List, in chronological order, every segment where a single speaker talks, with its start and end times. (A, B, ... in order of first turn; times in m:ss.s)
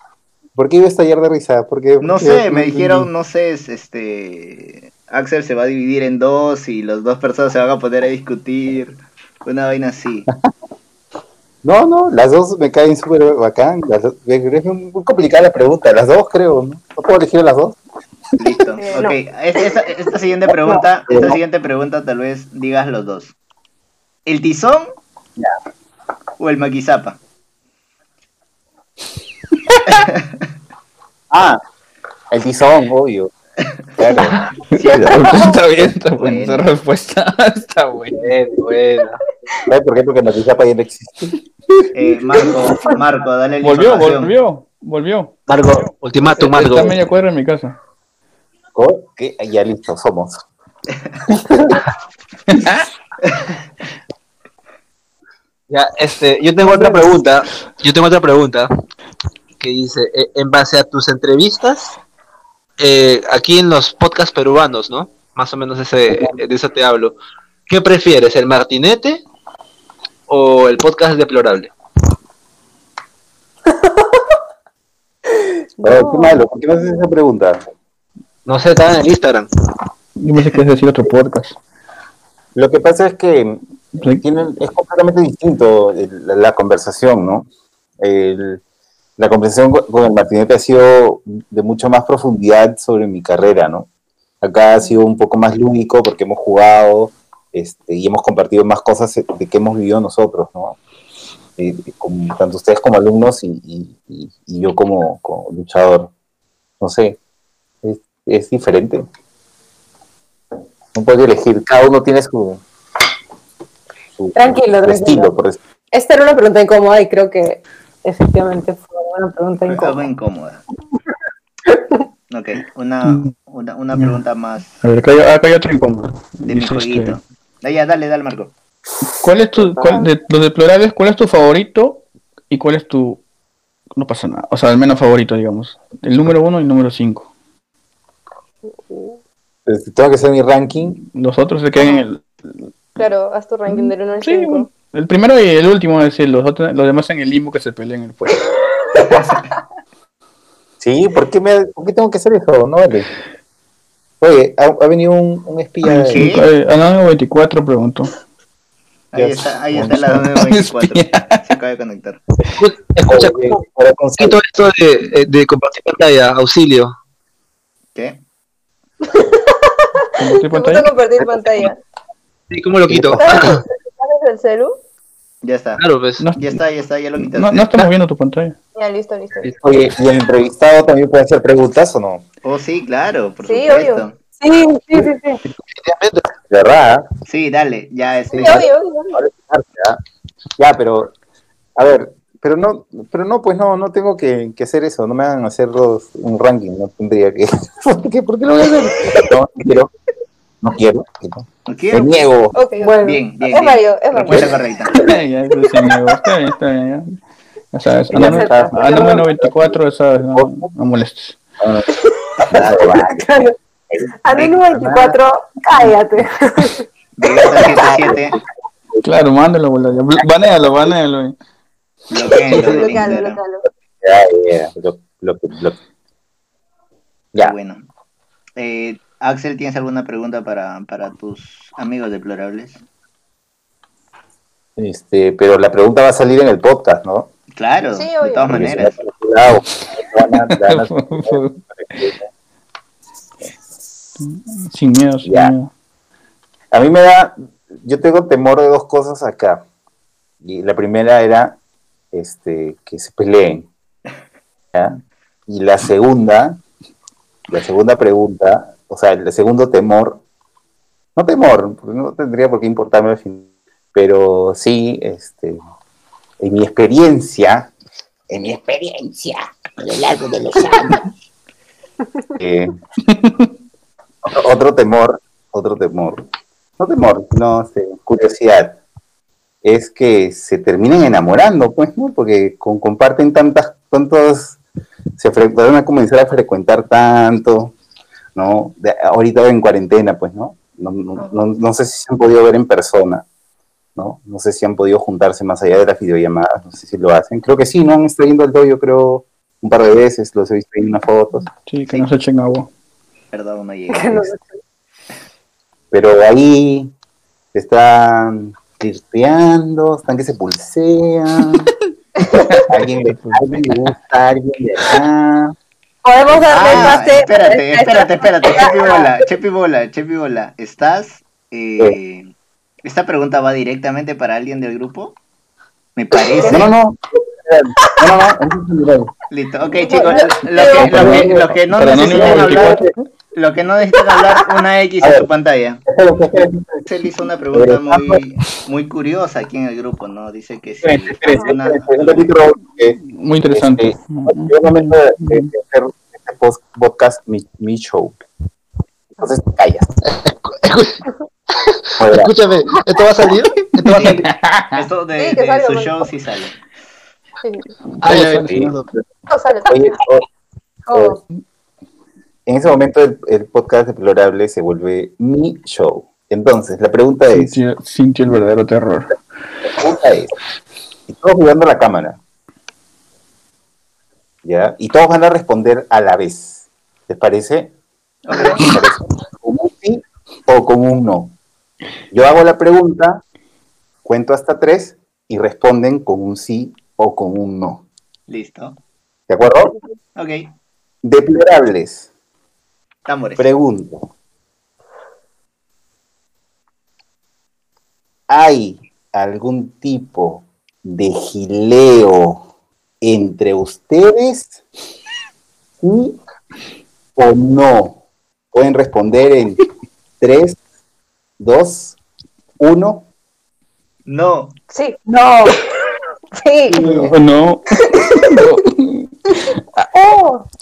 0:00.6-0:03.1 A
0:02.0-0:10.3 B
0:11.6-0:17.8 A
0:18.4-0:23.3 B
0:18.8-0:19.9 C
0:20.6-0:21.4 A
0:24.2-0:24.9 B
0:26.4-0:27.2 B
0:31.3-0:31.6 A
0:32.3-0:33.3 A
0:34.0-0:35.3 A
0:34.7-0:38.3 D
0:36.2-0:36.7 B
0:38.2-0:39.2 E
0:39.7-0:41.3 A
0:41.9-0:44.3 B
0:43.6-0:45.4 D
0:45.5-0:47.1 E
0:46.4-0:47.8 D
0:48.7-0:50.4 A
0:51.5-0:51.8 A
0:52.5-0:52.8 D
0:55.7-0:58.7 E
0:56.7-0:57.0 F
0:59.6-1:02.0 E
1:02.8-1:07.2 E
1:07.7-1:09.2 E
1:10.3-1:11.7 E
1:13.8-1:14.1 F
1:15.8-1:16.4 F
1:15.8-1:17.6 A
1:18.4-1:19.5 E
1:20.2-1:21.6 D
1:22.5-1:27.5 A
1:24.0-1:24.2 D
1:28.0-1:28.6 A
1:29.2-1:33.9 A
1:34.4-1:40.8 A
1:41.6-1:46.1 A
1:46.8-1:47.2 A
1:47.8-1:49.0 A
1:50.9-1:52.6 A
1:54.2-1:55.6 A
1:54.3-1:55.3 F
1:55.9-2:00.1 F
1:59.7-2:00.6 B
2:02.3-2:04.7 B
2:03.0-2:03.3 D
2:04.8-2:07.2 D
2:06.4-2:08.5 B
2:09.2-2:13.2 D
2:09.6-2:10.1 C
2:14.0-2:17.3 D
2:18.8-2:19.2 C
2:19.6-2:21.0 A
2:21.1-2:22.3 D
2:21.8-2:22.0 C
2:23.0-2:24.7 C
2:23.7-2:28.5 D
2:30.8-2:33.1 A
2:34.2-2:36.4 A
2:35.8-2:38.1 D
2:36.1-2:36.4 B
2:39.1-2:42.2 B
2:39.1-2:40.0 A
2:40.3-2:41.4 D
2:42.6-2:43.6 E
2:43.0-2:44.4 A
2:44.2-2:46.9 E
2:49.0-2:51.8 C
2:50.2-2:50.9 D
2:52.5-2:53.6 E
2:52.9-2:53.5 A
2:53.2-2:54.8 C
2:55.4-2:55.8 B
2:55.8-2:56.3 E
2:56.2-2:56.4 D
2:56.4-2:57.7 B
2:57.3-2:58.6 D
2:58.7-2:59.6 C
2:59.4-3:02.2 A
3:02.4-3:04.1 B
3:03.4-3:04.0 C
3:04.4-3:05.4 F
3:05.9-3:06.2 E
3:06.5-3:07.1 A
3:07.3-3:08.6 B
3:08.3-3:09.2 C
3:08.3-3:10.0 A
3:10.6-3:11.1 A
3:11.8-3:19.9 A
3:20.6-3:22.5 A
3:21.7-3:22.3 B
3:22.5-3:25.1 C
3:22.8-3:23.2 F
3:23.0-3:25.1 B
3:24.9-3:27.2 D
3:27.7-3:31.4 D
3:28.1-3:29.8 A
3:28.2-3:29.2 F
3:30.3-3:30.7 A
3:31.6-3:31.9 A
3:32.4-3:35.2 A
3:32.5-3:33.5 F
3:34.2-3:36.8 F
3:37.2-3:38.4 B
3:37.7-3:38.4 A
3:39.0-3:41.3 D
3:42.1-3:43.4 B
3:42.5-3:43.6 C
3:42.7-3:43.0 A
3:44.0-3:45.8 A
3:47.4-3:47.8 B
3:48.6-3:52.8 B
3:54.8-3:57.3 A
3:57.6-3:58.9 B
3:57.9-3:58.8 C
3:58.5-4:02.2 A
4:00.4-4:01.6 D
4:04.2-4:05.7 D
4:05.2-4:05.5 A
4:06.7-4:09.6 A
4:10.4-4:11.6 A
4:12.1-4:13.7 A
4:14.7-4:16.6 A
4:17.5-4:20.2 A
4:21.2-4:25.6 A
4:26.4-4:27.7 A
4:28.3-4:31.0 A
4:32.4-4:32.7 A
4:34.2-4:36.2 A
4:36.8-4:38.8 A
4:39.6-4:44.6 A
4:45.2-4:47.7 A
4:48.3-4:53.2 A
4:54.0-5:01.5 A
5:01.5-5:02.7 D
5:03.3-5:04.3 B
5:03.9-5:04.4 F
5:05.9-5:06.9 A
5:07.5-5:11.7 A
5:12.5-5:13.5 D
5:12.7-5:15.5 A
5:16.0-5:19.1 F
5:16.3-5:17.0 A
5:16.5-5:22.3 B
5:22.8-5:25.2 B
5:26.0-5:26.7 B
5:26.4-5:26.7 F
5:26.4-5:29.1 A
5:29.3-5:32.8 B
5:29.9-5:30.8 F
5:29.9-5:30.8 C
5:30.6-5:32.9 A
5:30.8-5:33.0 D
5:33.3-5:35.8 B
5:35.0-5:35.3 A
5:35.9-5:36.8 A
5:36.9-5:42.3 B
5:37.5-5:38.2 A
5:40.8-5:43.0 A
5:43.0-5:45.5 D
5:43.5-5:48.2 A
5:49.2-5:50.0 A
5:50.2-5:51.0 E
5:51.7-5:54.3 E
5:52.0-5:52.3 A
5:53.9-5:54.2 A
5:54.0-5:54.8 D
5:54.7-5:56.5 B
5:55.2-5:56.0 C
5:57.4-5:57.7 C
5:58.0-5:58.8 E
5:58.0-5:58.8 D
5:58.1-5:59.0 A
5:59.3-5:59.8 C
5:59.6-6:00.2 A
6:00.9-6:01.2 F
6:00.9-6:01.2 A
6:02.4-6:07.6 A
6:07.3-6:09.2 D
6:09.6-6:10.3 A
6:11.1-6:12.2 A
6:14.4-6:17.7 A
6:18.2-6:18.6 B
6:18.4-6:21.4 A
6:22.1-6:23.2 A
6:24.0-6:27.8 A
6:28.3-6:28.8 B
6:29.3-6:29.8 A
6:30.1-6:30.5 B
6:31.0-6:32.1 A
6:33.0-6:33.5 B
6:33.4-6:34.1 A
6:38.3-6:42.4 A
6:43.0-6:44.6 A
6:45.8-6:46.2 A
6:47.2-6:48.0 A
6:48.5-6:49.6 A
6:50.2-6:50.6 A
6:51.4-6:52.0 A
6:52.6-6:53.1 A
6:54.1-6:54.5 B
6:54.7-6:55.0 C
6:55.0-6:55.5 F
6:56.3-6:56.8 C
6:56.7-6:57.6 D
6:56.8-6:57.1 A
6:58.3-6:59.1 D
6:59.9-7:00.4 F